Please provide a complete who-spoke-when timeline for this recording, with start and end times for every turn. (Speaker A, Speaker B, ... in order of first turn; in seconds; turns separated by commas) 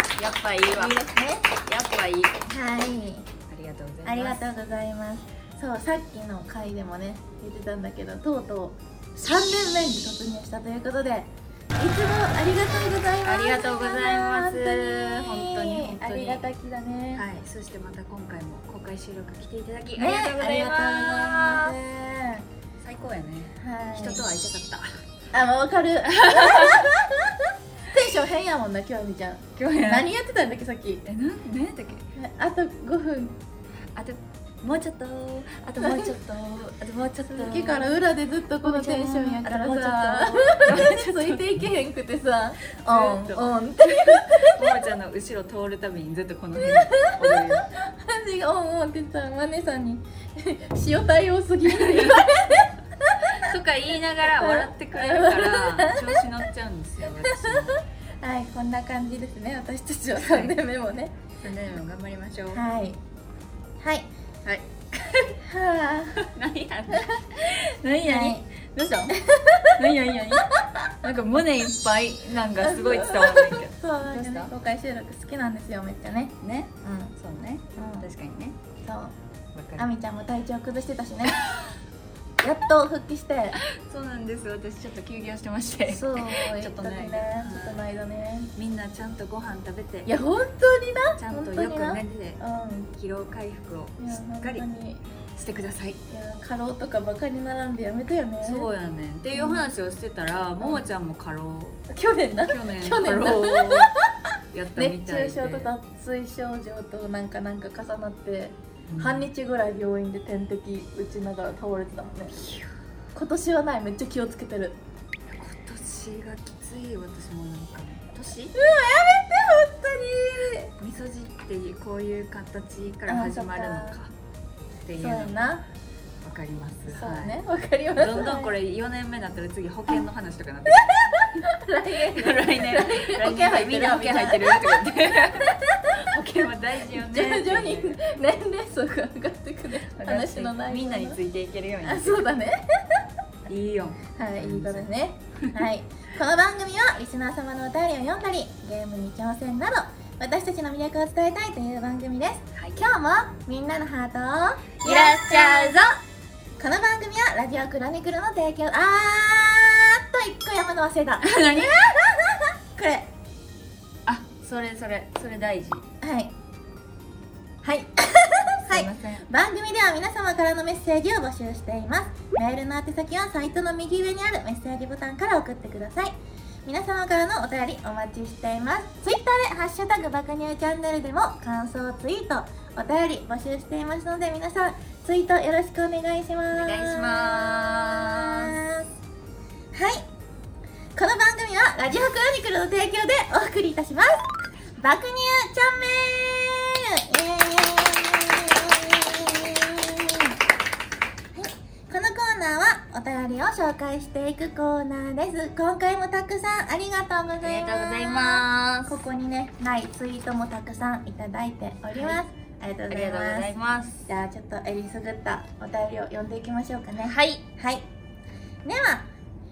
Speaker A: 0.2-2.5, Speaker B: 0.7-1.5, Speaker B: 2.5-3.3, Speaker A: 3.5-4.4, Speaker B: 4.0-17.2, Speaker A: 13.2-16.5, Speaker A: 17.1-21.8, Speaker B: 20.0-22.5, Speaker A: 22.8-24.9, Speaker B: 23.6-24.2, Speaker B: 25.3-31.0, Speaker A: 26.1-26.9, Speaker A: 29.6-30.1, Speaker A: 31.1-32.1, Speaker B: 32.2-33.4, Speaker A: 33.9-38.0, Speaker B: 35.8-36.2, Speaker B: 37.3-44.8, Speaker A: 38.6-41.4, Speaker A: 42.7-47.7, Speaker B: 46.6-53.5, Speaker A: 51.7-52.2, Speaker A: 53.2-57.8, Speaker B: 54.2-56.3, Speaker B: 57.2-61.2, Speaker A: 60.2-60.6, Speaker A: 61.4-62.6, Speaker B: 62.5-63.0, Speaker B: 63.8-64.1, Speaker A: 64.5-65.4, Speaker B: 65.4-66.2, Speaker A: 66.2-69.2, Speaker B: 66.9-67.2, Speaker B: 68.0-68.4, Speaker B: 69.1-69.9, Speaker A: 69.7-74.5, Speaker B: 70.6-70.9, Speaker B: 72.6-77.2, Speaker A: 76.4-78.6, Speaker B: 77.8-78.1, Speaker B: 78.8-79.2, Speaker A: 79.5-79.9, Speaker B: 79.8-81.4, Speaker B: 82.4-83.6, Speaker A: 83.6-87.8, Speaker B: 85.9-88.5, Speaker A: 88.6-90.1, Speaker B: 90.1-92.9, Speaker A: 91.2-92.4, Speaker A: 92.9-94.7, Speaker B: 94.0-95.0, Speaker A: 95.3-96.0, Speaker B: 96.1-98.7, Speaker A: 98.4-101.8, Speaker B: 99.3-99.7, Speaker B: 101.9-112.4, Speaker A: 102.5-103.9, Speaker A: 104.5-105.7, Speaker A: 108.9-109.3, Speaker A: 112.3-112.7, Speaker B: 113.1-114.8, Speaker A: 115.3-118.6, Speaker B: 118.5-120.7, Speaker A: 120.8-124.1, Speaker B: 123.1-124.0, Speaker A: 124.8-125.4, Speaker B: 125.0-125.7, Speaker A: 126.2-127.4, Speaker B: 126.9-128.5, Speaker A: 128.0-131.4, Speaker B: 130.7-136.0, Speaker A: 132.0-138.0, Speaker B: 136.9-141.2, Speaker A: 139.9-142.2, Speaker B: 141.8-143.1, Speaker A: 143.5-145.6, Speaker B: 144.2-155.8, Speaker A: 154.8-156.0, Speaker B: 156.6-163.1, Speaker A: 161.2-161.8, Speaker A: 164.1-165.9, Speaker B: 166.0-166.3, Speaker B: 167.6-188.9, Speaker A: 168.7-169.3, Speaker A: 186.5-188.6, Speaker B: 189.7-190.1, Speaker B: 191.0-200.4, Speaker B: 201.3-213.5, Speaker A: 207.4-208.9, Speaker A: 212.9-214.1, Speaker B: 214.1-217.9, Speaker A: 217.0-217.4, Speaker B: 218.6-219.1